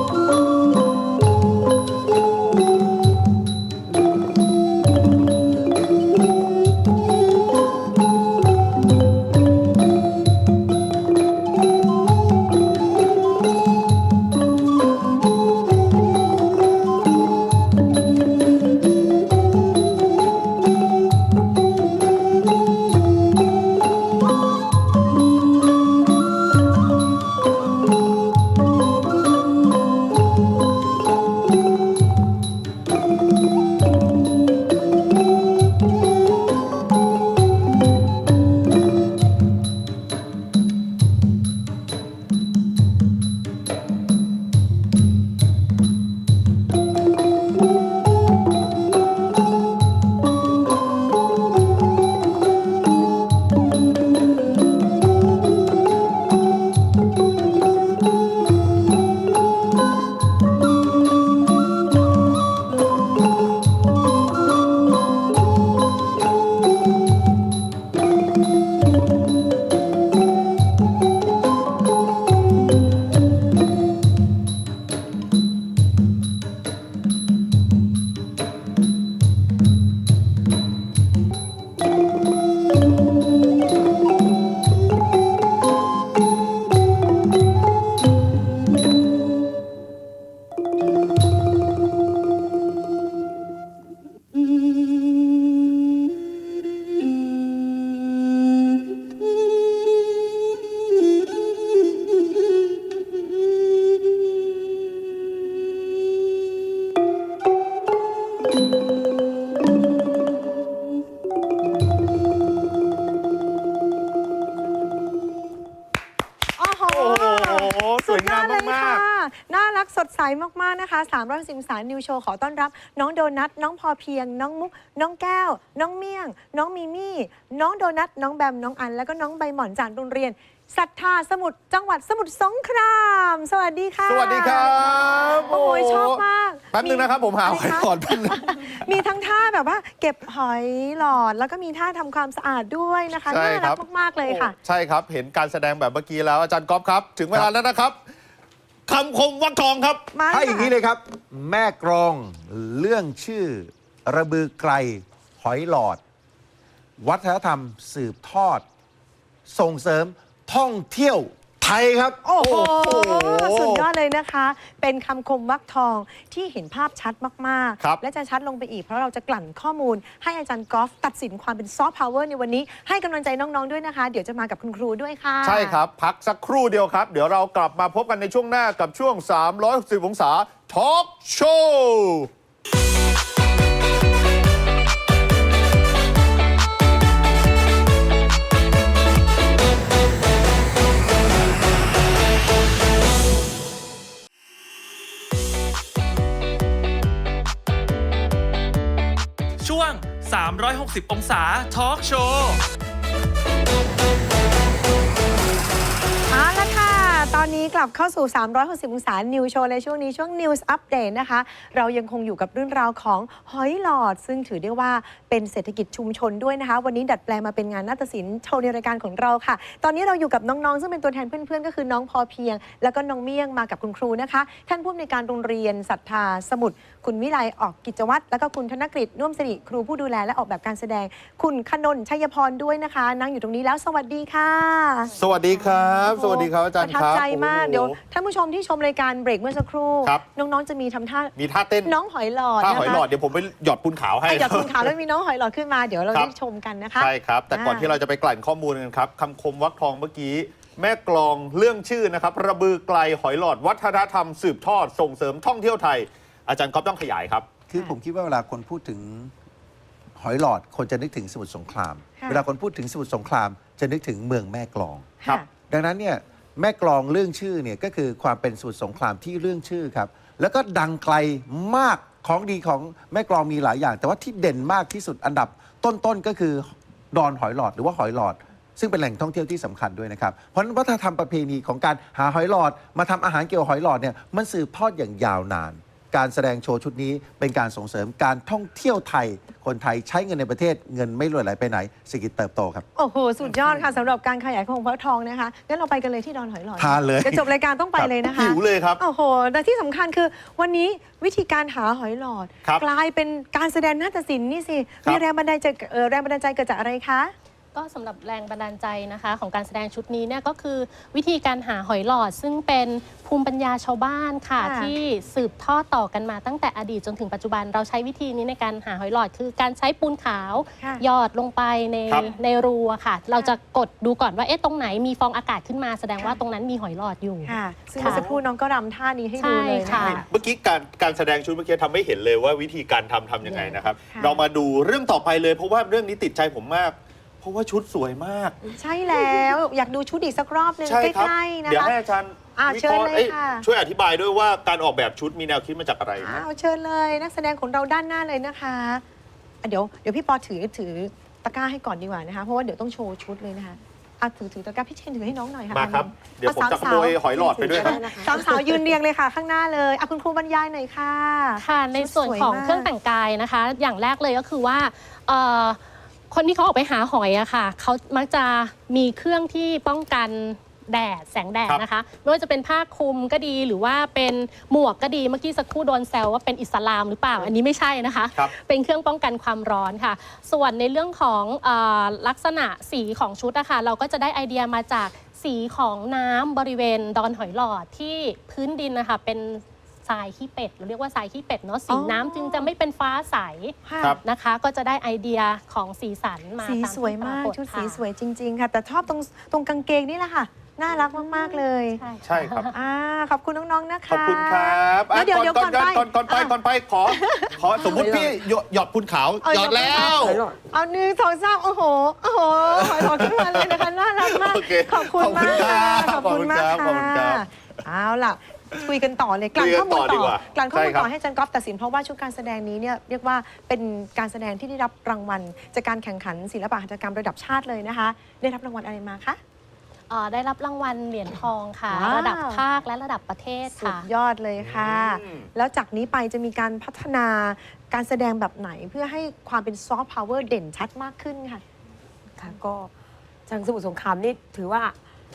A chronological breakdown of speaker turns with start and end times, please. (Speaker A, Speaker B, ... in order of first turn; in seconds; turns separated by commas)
Speaker A: 116.6-144.6, Speaker B: 116.9-119.0, Speaker B: 134.1-139.0, Speaker B: 143.3-147.9, Speaker B: 148.9-150.1, Speaker A: 150.1-150.7, Speaker C: 150.3-156.0, Speaker C: 157.0-158.6, Speaker C: 159.5-162.2, Speaker A: 162.2-175.8, Speaker B: 162.4-163.9, Speaker B: 175.4-182.3, Speaker D: 199.6-202.6, Speaker A: 206.3-241.3, Speaker B: 235.2-237.9, Speaker B: 241.4-241.9, Speaker A: 241.9-243.1, Speaker B: 242.6-244.9, Speaker A: 244.3-247.9, Speaker B: 247.0-257.5, Speaker C: 257.7-259.3, Speaker C: 260.2-265.1, Speaker C: 265.7-292.9, Speaker A: 292.9-307.3, Speaker C: 296.8-297.4, Speaker B: 298.0-299.0, Speaker E: 307.8-328.3, Speaker A: 314.6-314.9, Speaker A: 327.4-330.2, Speaker E: 329.4-330.2, Speaker B: 329.9-338.6, Speaker A: 333.5-334.4, Speaker A: 338.7-341.9, Speaker B: 340.8-346.4, Speaker A: 342.6-343.6, Speaker A: 346.2-349.0, Speaker A: 349.6-362.9, Speaker B: 355.7-358.1, Speaker F: 357.7-358.8, Speaker E: 361.6-365.8, Speaker E: 366.3-398.0, Speaker A: 391.9-392.7, Speaker A: 393.9-394.2, Speaker A: 396.6-402.0, Speaker E: 401.2-402.7, Speaker B: 402.2-402.7, Speaker A: 402.7-406.5, Speaker B: 404.1-410.4, Speaker A: 407.1-408.3, Speaker F: 407.9-408.3, Speaker A: 409.4-429.4, Speaker F: 410.1-410.6, Speaker B: 412.6-417.4, Speaker B: 419.6-421.1, Speaker E: 430.1-434.1, Speaker A: 431.9-432.6, Speaker A: 433.7-441.6, Speaker B: 434.6-435.5, Speaker F: 442.4-442.9, Speaker F: 443.5-444.9